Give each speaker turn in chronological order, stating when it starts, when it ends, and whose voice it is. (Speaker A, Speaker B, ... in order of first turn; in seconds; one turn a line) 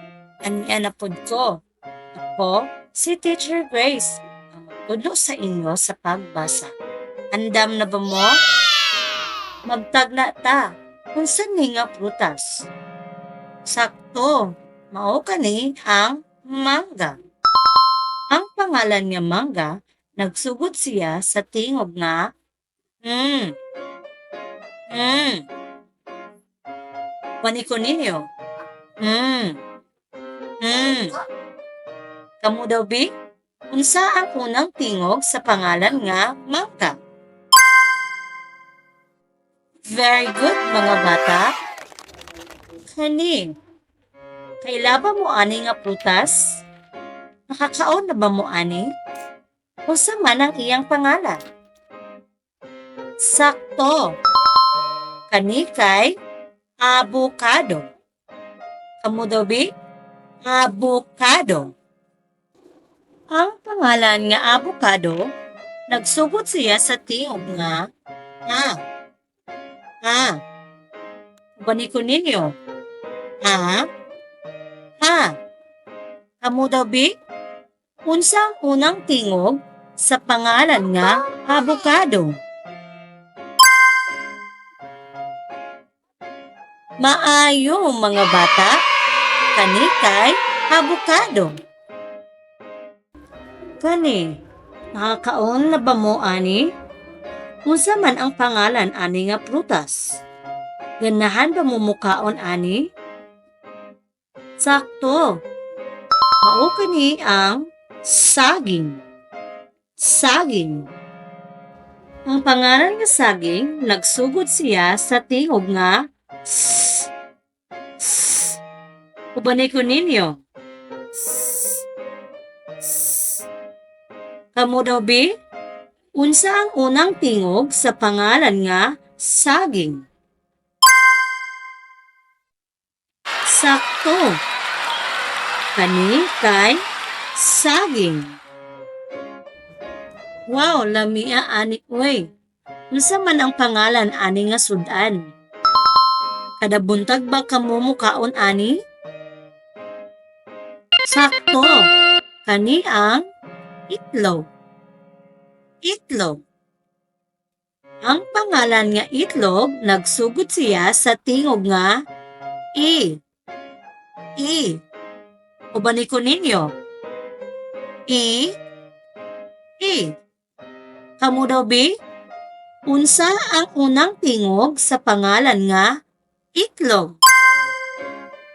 Speaker A: 0.4-1.6
Speaker A: 2.2-6.7
Speaker A: 7.3-8.4
Speaker A: 9.7-12.7
Speaker A: 13.7-17.1
Speaker A: 18.3-22.2
Speaker A: 23.0-23.5
Speaker A: 24.9-25.4
Speaker A: 27.4-28.2
Speaker A: 29.0-29.6
Speaker A: 30.6-31.1
Speaker A: 32.4-33.1
Speaker A: 33.7-37.0
Speaker A: 39.9-41.5
Speaker A: 42.9-43.5
Speaker A: 44.6-46.6
Speaker A: 47.5-48.9
Speaker A: 49.9-51.4
Speaker A: 53.2-54.0
Speaker A: 55.3-56.1
Speaker A: 56.8-57.9
Speaker A: 59.0-59.7
Speaker A: 60.4-61.7
Speaker A: 63.3-65.2
Speaker A: 65.9-67.9
Speaker A: 68.5-68.8
Speaker A: 70.0-70.4
Speaker A: 71.6-72.5
Speaker A: 73.4-73.8
Speaker A: 75.0-75.3
Speaker A: 76.4-77.1
Speaker A: 78.0-82.4
Speaker A: 87.0-88.8
Speaker A: 89.5-91.5
Speaker A: 93.8-94.4
Speaker A: 95.0-96.6
Speaker A: 97.7-100.2
Speaker A: 101.0-102.8
Speaker A: 104.6-105.2
Speaker A: 106.4-109.0
Speaker A: 110.0-110.9
Speaker A: 112.3-117.1
Speaker A: 118.0-118.6
Speaker A: 119.4-120.4
Speaker A: 121.1-121.9
Speaker A: 122.8-123.5
Speaker A: 124.5-125.3
Speaker A: 126.2-130.0
Speaker A: 133.5-134.4
Speaker A: 135.8-136.8
Speaker A: 137.4-138.3
Speaker A: 140.5-142.3
Speaker A: 142.9-145.2
Speaker A: 146.6-148.8
Speaker A: 151.1-151.9
Speaker A: 152.4-153.2
Speaker A: 153.9-154.5
Speaker A: 155.8-156.4
Speaker A: 158.0-161.9
Speaker A: 162.8-163.2
Speaker A: 164.4-164.8
Speaker A: 165.7-166.7
Speaker A: 168.1-168.5
Speaker A: 169.8-170.1
Speaker A: 171.2-171.9
Speaker A: 172.9-175.9
Speaker A: 176.5-177.2